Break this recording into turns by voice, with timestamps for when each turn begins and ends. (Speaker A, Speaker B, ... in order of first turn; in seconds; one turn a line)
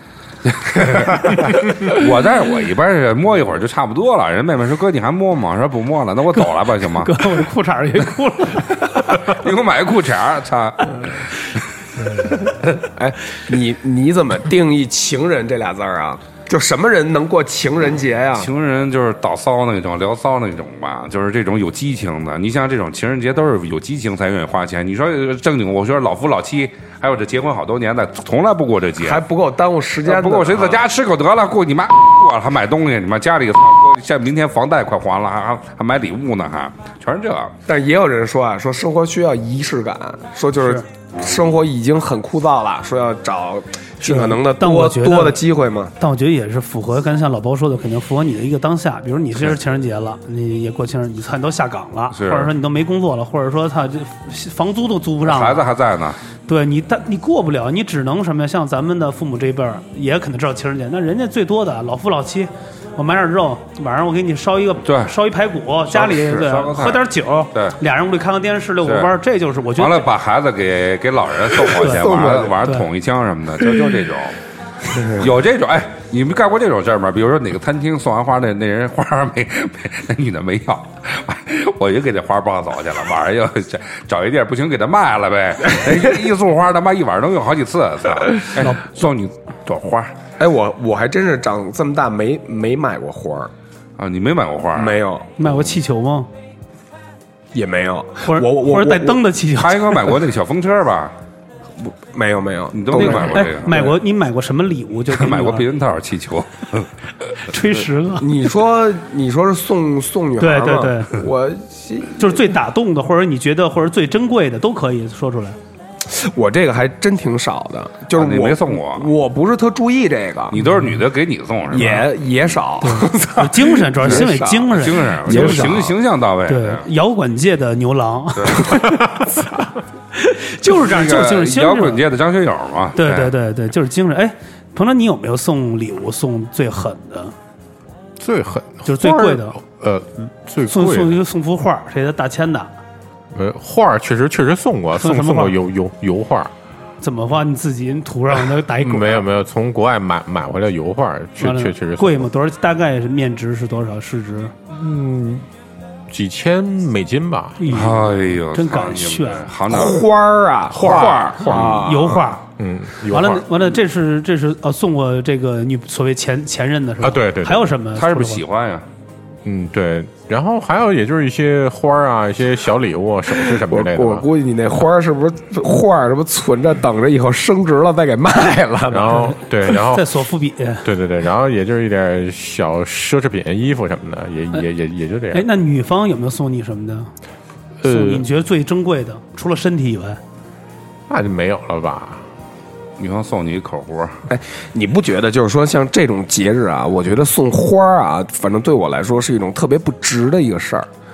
Speaker A: 0.5-7.4
Speaker B: 6.3-9.3
Speaker A: 8.9-11.3
Speaker B: 12.0-12.5
Speaker C: 12.8-18.5
Speaker A: 18.4-29.2
Speaker C: 29.0-30.8
Speaker A: 30.1-37.5
Speaker C: 37.7-45.9
Speaker B: 40.6-40.9
Speaker B: 44.0-45.4
Speaker B: 46.0-55.7
Speaker A: 52.1-52.5
Speaker A: 55.2-56.2
Speaker B: 56.5-70.1
Speaker A: 64.8-65.1
Speaker A: 65.9-67.8
Speaker A: 68.8-69.1
Speaker A: 69.8-74.4
Speaker C: 71.7-72.6
Speaker B: 72.6-72.9
Speaker C: 74.9-75.3
Speaker A: 75.0-90.1
Speaker B: 88.6-88.9
Speaker C: 90.4-93.5
Speaker A: 94.0-95.8
Speaker C: 94.7-95.3
Speaker B: 95.4-96.3
Speaker C: 97.5-99.2
Speaker B: 98.2-100.1
Speaker A: 99.6-101.1
Speaker C: 102.0-104.0
Speaker A: 102.7-103.9
Speaker B: 103.0-105.7
Speaker A: 105.1-106.9
Speaker B: 107.5-108.3
Speaker C: 108.2-112.4
Speaker B: 110.4-111.2
Speaker B: 112.2-115.6
Speaker C: 116.1-120.6
Speaker A: 118.1-119.1
Speaker A: 120.5-122.1
Speaker B: 120.6-121.0
Speaker C: 121.7-125.9
Speaker B: 122.8-125.9
Speaker A: 124.0-126.9
Speaker B: 126.5-129.2
Speaker C: 129.3-129.6
Speaker B: 130.1-132.0
Speaker A: 130.7-133.3
Speaker B: 133.0-137.3
Speaker D: 138.2-141.2
Speaker B: 138.9-139.6
Speaker B: 140.7-142.7
Speaker D: 143.3-146.5
Speaker B: 145.0-145.6
Speaker B: 147.0-149.3
Speaker D: 148.8-152.3
Speaker B: 151.4-154.5
Speaker D: 154.7-155.5
Speaker D: 156.1-157.7
Speaker B: 157.6-159.5
Speaker A: 157.7-160.1
Speaker C: 159.7-162.2
Speaker D: 160.7-161.9
Speaker B: 160.8-162.5
Speaker D: 162.6-163.4
Speaker B: 163.1-168.4
Speaker D: 167.0-167.7
Speaker A: 167.9-168.9
Speaker D: 169.4-174.3
Speaker C: 173.3-179.3
Speaker D: 178.9-180.2
Speaker B: 179.7-180.9
Speaker D: 180.8-185.5
Speaker B: 185.3-187.1
Speaker D: 187.8-188.2
Speaker B: 187.9-190.2
Speaker D: 191.1-192.2
Speaker A: 193.0-194.2
Speaker C: 194.3-200.9